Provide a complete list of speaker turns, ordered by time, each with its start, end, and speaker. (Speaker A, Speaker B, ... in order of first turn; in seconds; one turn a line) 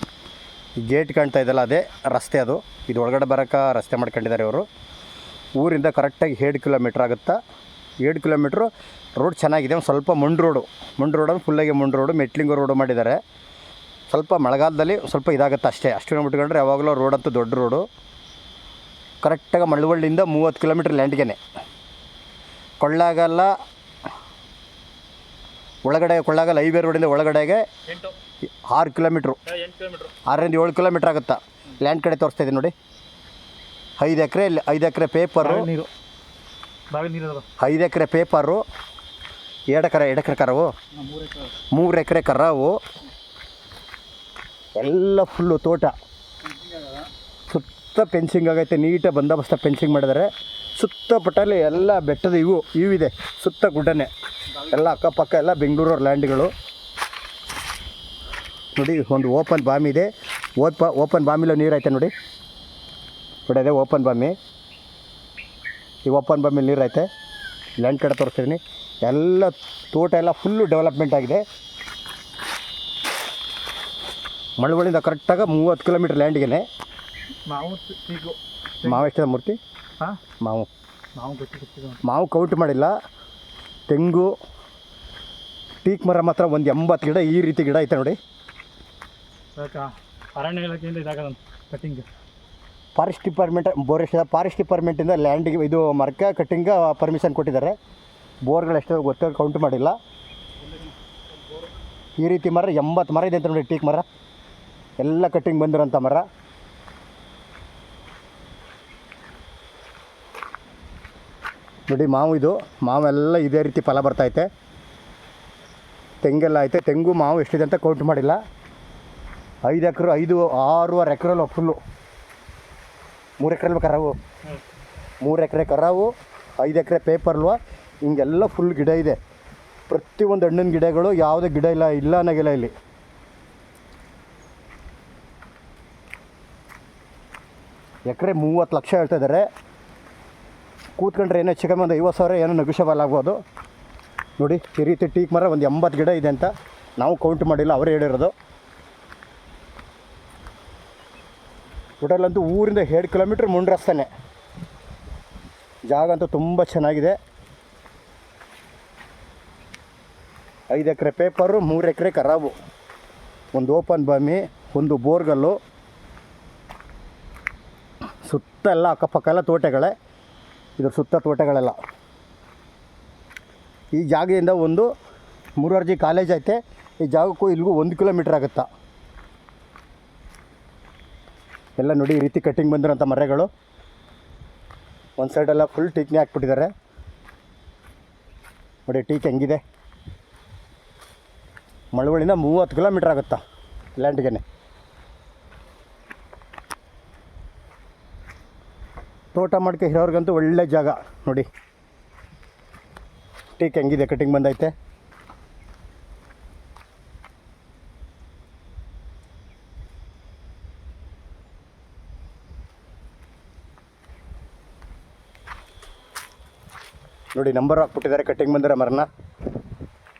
Speaker A: 0.8-4.7
Speaker A: 5.6-7.4
Speaker A: 8.0-13.2
Speaker A: 14.1-17.8
Speaker A: 19.2-21.4
Speaker A: 22.8-23.5
Speaker A: 25.8-27.6
Speaker A: 28.4-29.4
Speaker B: 29.5-30.2
Speaker A: 30.2-32.7
Speaker A: 34.0-35.7
Speaker B: 35.4-35.9
Speaker B: 36.9-37.5
Speaker A: 37.6-38.6
Speaker A: 39.7-40.7
Speaker B: 41.0-41.5
Speaker A: 41.7-42.8
Speaker A: 44.8-46.0
Speaker A: 47.5-54.1
Speaker A: 54.6-56.5
Speaker A: 58.7-62.1
Speaker A: 63.5-64.4
Speaker A: 66.0-67.1
Speaker A: 67.8-71.4
Speaker A: 74.6-76.7
Speaker B: 77.5-79.0
Speaker A: 78.8-79.6
Speaker A: 80.4-80.7
Speaker B: 81.2-82.0
Speaker A: 82.0-82.9
Speaker A: 83.9-84.3
Speaker A: 85.8-88.2
Speaker B: 89.6-92.1
Speaker A: 93.0-97.8
Speaker A: 98.5-100.0
Speaker A: 102.2-104.0
Speaker A: 105.0-106.2
Speaker A: 111.9-114.5
Speaker A: 116.2-118.4
Speaker A: 119.6-121.8
Speaker A: 123.4-124.2
Speaker A: 125.2-129.2
Speaker A: 129.9-132.7
Speaker A: 138.1-139.5
Speaker A: 141.0-143.4
Speaker A: 144.4-148.3
Speaker A: 152.0-154.1
Speaker A: 155.9-157.2
Speaker A: 160.7-162.6
Speaker A: 163.5-165.6
Speaker A: 168.2-169.9
Speaker A: 170.8-171.8
Speaker A: 173.9-174.9
Speaker A: 175.6-178.7
Speaker A: 181.8-183.5
Speaker A: 185.2-186.7
Speaker A: 188.9-189.6
Speaker A: 191.9-193.4
Speaker A: 194.0-194.4
Speaker A: 199.3-201.5
Speaker A: 203.6-204.7
Speaker A: 217.3-219.1